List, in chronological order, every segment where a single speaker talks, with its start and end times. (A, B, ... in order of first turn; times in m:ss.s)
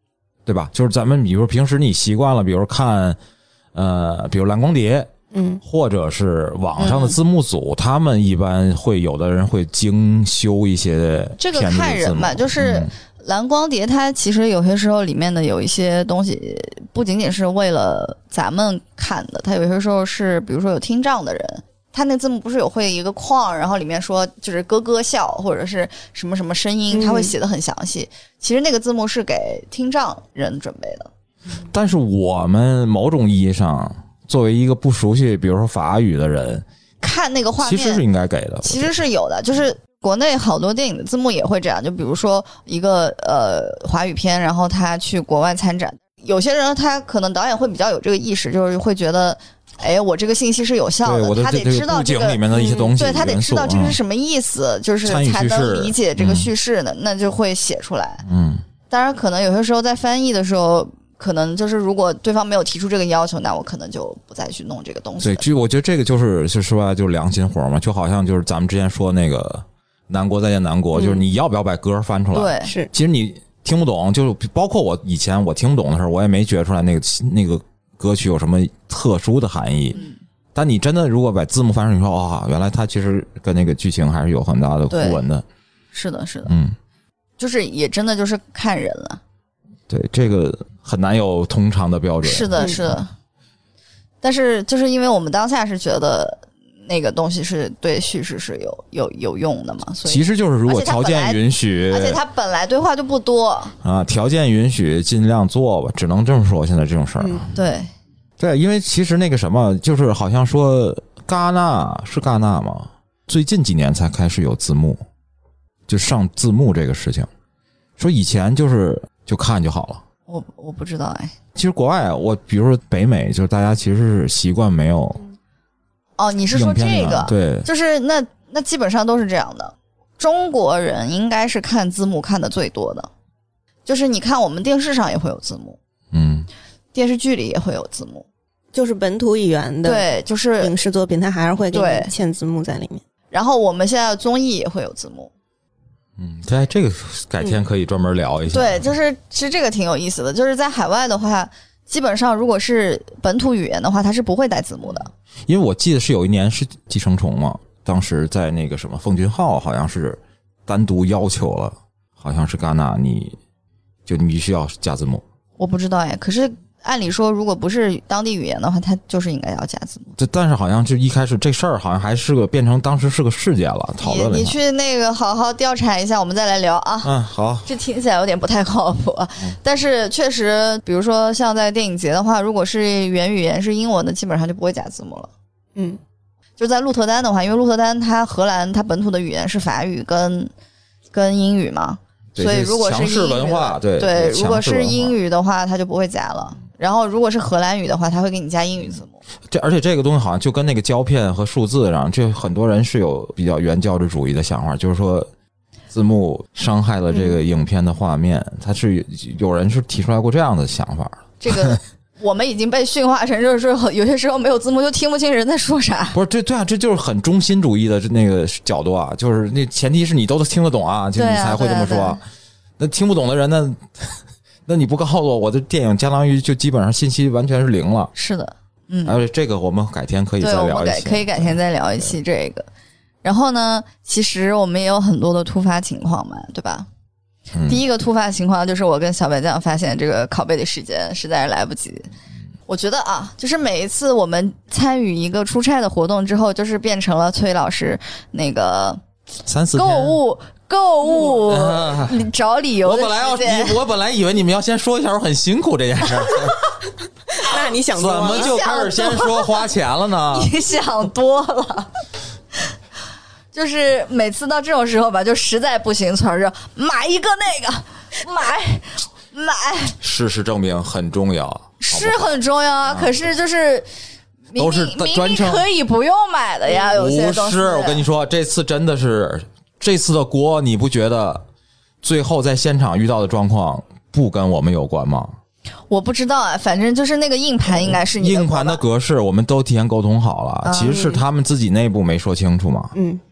0:00.5-0:03.2 A
0:03.8-0:05.1 A
0:05.3-0:05.6 B
0:05.6-0:12.9 A
0:06.8-0:07.2 C
0:11.4-0:31.1 C
0:26.9-0:27.3 B
0:31.7-0:36.6 A
0:37.0-0:38.0 C
0:37.6-0:38.9 A
0:38.6-0:58.2 C
0:51.0-0:54.0 A
0:52.5-0:52.9 B
0:55.0-0:56.5 A
0:58.2-0:58.6 A
0:58.9-1:05.4 C
1:05.2-1:20.0 A
1:12.3-1:12.7 C
1:12.6-1:12.9 B
1:20.6-1:25.4 A
1:24.9-1:25.2 C
1:25.9-1:26.5 C
1:26.5-1:26.8 A
1:27.4-1:29.2 C
1:29.9-1:32.9 A
1:32.2-1:33.1 C
1:34.2-1:43.8 C
1:40.1-1:42.2 A
1:43.8-1:47.5 A
1:47.5-1:47.9 C
1:48.4-1:55.0 A
1:55.9-1:57.3 A
1:58.0-2:00.0 A
2:00.3-2:01.3 C
2:01.6-2:05.2 A
2:06.2-2:13.1 C
2:06.5-2:07.7 A
2:13.9-2:15.8 C
2:16.1-2:16.5 A
2:16.9-2:18.3 C
2:18.7-2:20.1 B
2:19.8-2:20.7 C
2:20.6-2:23.0 B
2:21.7-2:22.1 C
2:23.3-2:25.3 C
2:26.2-2:28.9 A
2:28.5-2:35.1 C
2:35.5-2:43.4 A
2:44.1-2:45.2 A
2:45.6-2:50.1 C
2:50.2-2:54.6 A
2:54.0-2:57.1 C
2:57.0-2:57.7 A
2:57.7-3:05.3 C
3:06.6-3:10.5 C
3:11.1-3:19.2 C
3:12.4-3:15.2 A
3:19.5-3:25.3 A
3:25.9-3:31.8 A
3:31.4-3:36.2 C
3:36.1-3:42.2 A
3:41.2-3:42.2 C
3:42.8-3:48.1 A
3:48.2-3:49.2 C
3:49.0-3:51.6 A
3:50.4-3:52.7 C
3:53.2-3:56.9 C
3:57.5-3:57.8 A
3:57.7-4:02.1 C
4:02.7-4:09.0 C
4:09.5-4:10.2 A
4:09.7-4:13.8 C
4:11.4-4:12.3 A
4:12.8-4:16.7 A
4:17.4-4:18.6 B
4:17.9-4:20.5 A
4:18.3-4:19.6 C
4:20.3-4:21.9 C
4:23.5-4:30.0 C
4:30.0-4:32.3 A
4:31.8-4:33.9 C
4:32.9-4:33.1 A
4:34.5-4:38.0 C
4:34.6-4:35.7 A
4:36.7-4:41.4 A
4:42.0-4:45.4 A
4:45.9-4:48.8 C
4:47.8-4:52.9 A
4:50.6-4:51.1 C
4:50.8-4:51.2 B
4:53.0-4:53.2 B